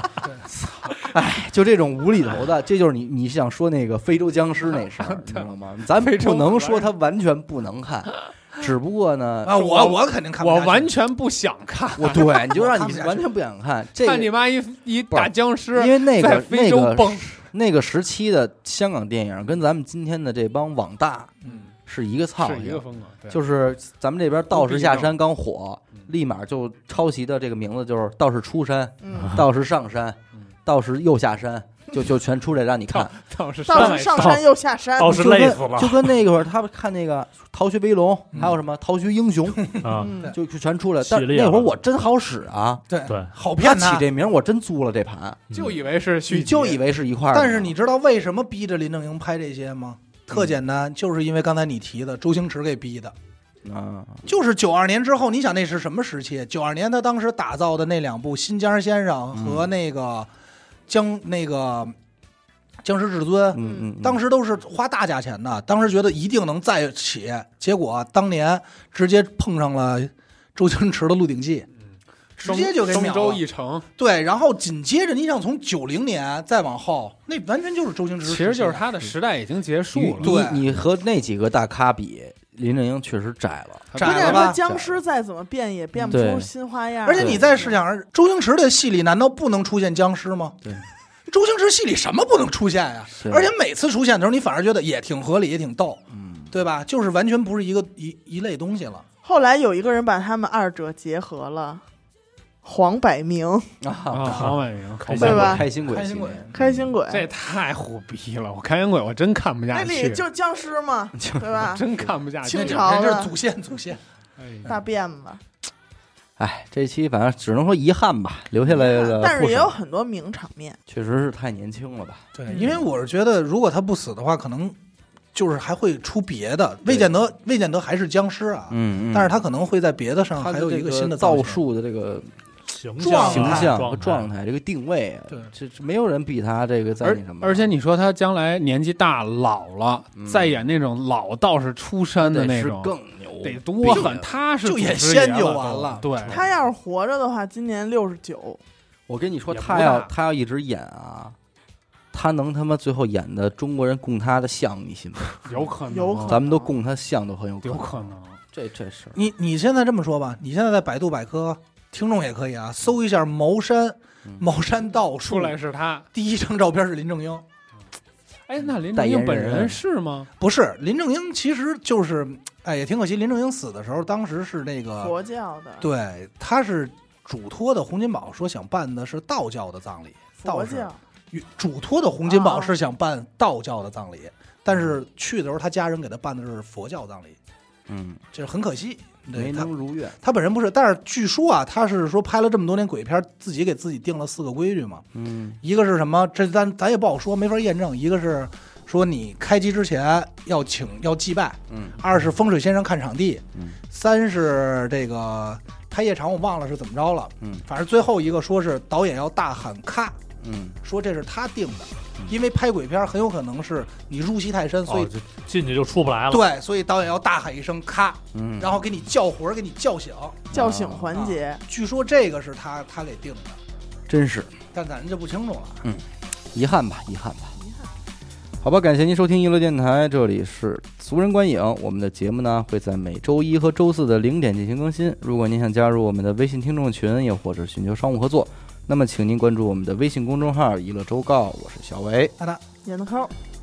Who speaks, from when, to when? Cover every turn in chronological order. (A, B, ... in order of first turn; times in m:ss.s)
0:00.5-0:01.0 A
0:01.0-0:09.8 B
0:05.0-0:06.9 A
0:09.4-0:10.9 C
0:09.6-0:12.6 A
0:12.0-0:14.3 B
0:12.1-0:13.2 C
0:14.0-0:17.4 A
0:15.1-0:21.3 B
0:21.4-0:21.7 A
0:21.8-0:33.1 B
0:22.4-0:23.4 A
0:24.5-0:25.1 A
0:29.0-0:29.4 D
0:32.9-0:34.4 A
0:33.6-0:35.5 D
0:34.0-0:34.4 E
0:35.0-0:36.1 E
0:35.1-0:42.8 B
0:39.6-0:40.3 C
0:39.8-0:40.2 E
0:40.0-0:40.3 D
0:41.0-0:41.7 E
0:42.9-0:44.0 C
0:43.1-0:43.3 E
0:43.6-0:45.4 B
0:45.5-0:46.8 A
0:46.3-0:47.7 B
0:47.3-0:53.1 C
0:53.6-0:54.3 B
0:54.2-1:00.3 C
0:59.3-0:59.7 B
1:00.9-1:01.9 C
1:02.8-1:11.7 C
1:03.5-1:04.2 B
1:03.6-1:03.9 D
1:12.4-1:13.8 A
1:12.4-1:13.4 C
1:14.0-1:18.9 C
1:18.2-1:20.4 A
1:19.9-1:25.0 B
1:20.2-1:20.7 C
1:23.9-1:24.5 A
1:24.0-1:24.6 C
1:24.0-1:27.4 D
1:26.1-1:26.5 B
1:27.0-1:30.7 C
1:27.1-1:27.5 B
1:31.3-1:39.0 C
1:33.2-1:33.5 B
1:36.1-1:36.5 B
1:39.2-1:41.8 D
1:42.6-1:43.7 D
1:43.8-1:44.5 B
1:44.1-1:45.5 A
1:45.1-1:45.6 E
1:45.1-1:46.8 B
1:45.1-1:45.6 D
1:45.8-1:46.5 C
1:46.5-1:47.3 D
1:47.1-1:50.2 A
1:49.7-1:51.8 D
1:51.2-1:51.7 B
1:51.6-1:53.1 A
1:52.4-1:53.3 D
1:52.5-1:54.0 C
1:54.4-1:54.7 A
1:54.6-1:55.4 D
1:56.4-1:59.7 B
1:58.6-2:00.8 D
2:00.9-2:02.8 B
2:02.3-2:04.8 C
2:05.3-2:11.6 C
2:08.7-2:09.3 B
2:10.3-2:12.3 B
2:12.7-2:14.2 E
2:13.0-2:13.8 C
2:13.1-2:17.7 B
2:17.0-2:26.4 A
2:20.1-2:20.5 B
2:22.2-2:24.3 B
2:23.9-2:24.1 C
2:24.6-2:26.4 C
2:26.3-2:28.6 D
2:29.1-2:31.4 B
2:29.5-2:30.1 A
2:32.1-2:35.5 B
2:35.4-2:36.4 A
2:35.9-2:36.7 D
2:36.2-2:39.2 B
2:37.6-2:38.4 A
2:39.1-2:45.6 C
2:45.2-2:46.1 A
2:46.1-2:47.4 C
2:48.5-2:50.3 A
2:48.9-2:49.8 B
2:50.4-2:55.1 C
2:55.0-2:55.9 D
2:55.8-3:07.4 C
3:00.4-3:01.0 D
3:02.2-3:02.7 D
3:07.9-3:08.2 B
3:08.3-3:09.7 C
3:09.3-3:10.2 B
3:10.2-3:15.0 C
3:15.1-3:15.6 B
3:15.6-3:30.2 C
3:21.7-3:22.0 B
3:30.4-3:30.8 B
3:30.8-3:35.1 C
3:34.8-3:36.5 E
3:36.3-3:40.5 C
3:38.3-3:38.8 B
3:40.5-3:41.2 B
3:40.5-3:41.6 D
3:41.1-3:43.6 C
3:44.1-3:44.5 B
3:44.7-3:45.8 C
3:45.8-3:47.5 B
3:48.6-4:02.3 B
4:02.8-4:03.3 D